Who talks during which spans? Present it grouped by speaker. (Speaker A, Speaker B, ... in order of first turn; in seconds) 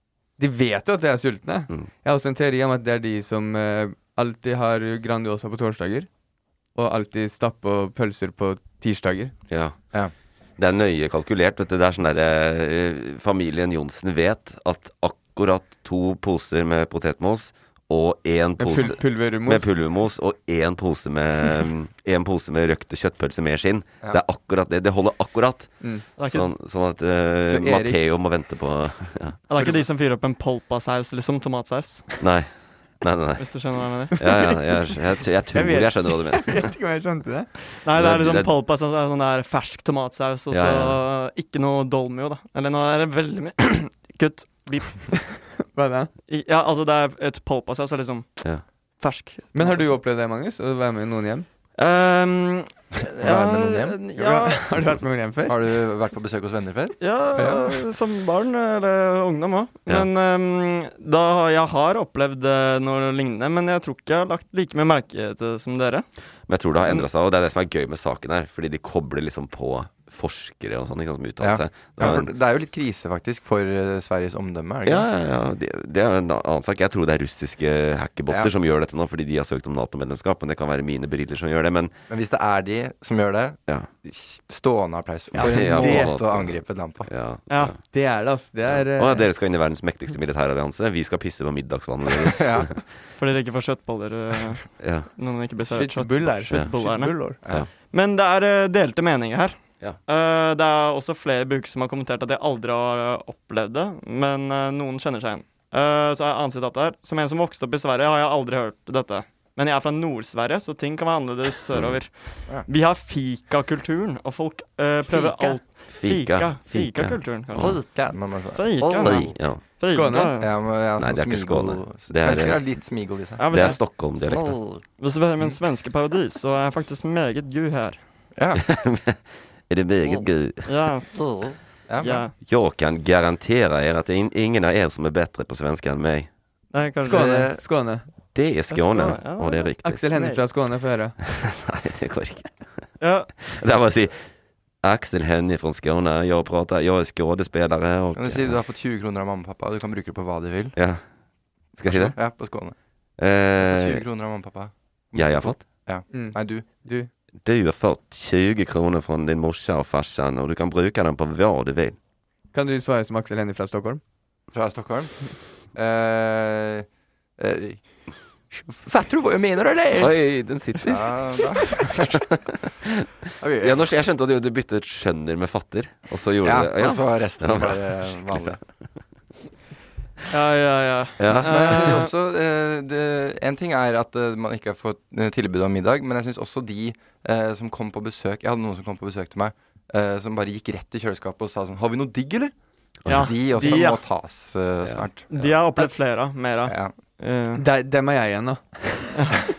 Speaker A: 0.4-6.1, 6.7-9.3, 18.6-19.7, 27.4-28.1, 34.2-34.6, 35.5-37.5, 45.7-46.1, 49.5-51.5, 54.1-55.5, 85.3-86.2, 87.9-89.3, 95.7-97.4, 115.1-115.6, 119.8-120.3, 137.0-138.1, 139.8-141.2, 156.1-157.1, 162.5-164.0, 197.6-199.1
Speaker B: 9.5-9.8, 10.6-29.4, 32.2-36.7, 37.9-38.5, 40.5-41.0, 66.5-72.3, 74.8-81.9, 85.3-87.8, 88.7-92.9, 94.8-95.1, 111.7-112.0, 115.9-117.9, 118.9-119.7, 120.8-124.6, 128.6-130.8, 132.4-136.3, 138.3-140.1, 141.3-142.8, 143.4-144.3, 144.8-148.6, 150.8-151.0, 151.8-152.3, 153.2-154.0, 155.2-155.6, 157.4-162.0, 170.0-171.2, 173.6-178.6, 181.2-182.1, 193.1-193.6, 194.8-195.5
Speaker C: 26.2-26.5, 29.5-32.3, 33.4-34.3, 37.8-45.5, 46.3-49.9, 51.8-54.8, 57.0-66.0, 87.5-87.8, 93.2-117.8, 118.5-120.6, 123.3-124.1, 125.0-128.0, 130.6-131.1, 132.0-132.3, 136.7-137.5, 138.7-140.4, 143.0-143.3, 180.3-182.1, 193.1-194.1, 195.3-197.6
Speaker D: 53.1-54.0, 55.5-57.7, 71.4-75.1, 82.1-87.1, 92.2-92.7, 97.4-97.7, 117.6-119.2, 120.4-123.4, 124.3-124.8, 128.3-128.7, 131.9-132.2, 137.0-137.6, 148.2-150.8, 151.9-152.7, 153.6-156.7, 164.5-166.8, 167.4-167.8, 168.5-170.2, 170.8-172.2, 173.4-173.8, 176.4-178.6, 181.3-192.5, 193.1-195.3, 196.7-196.9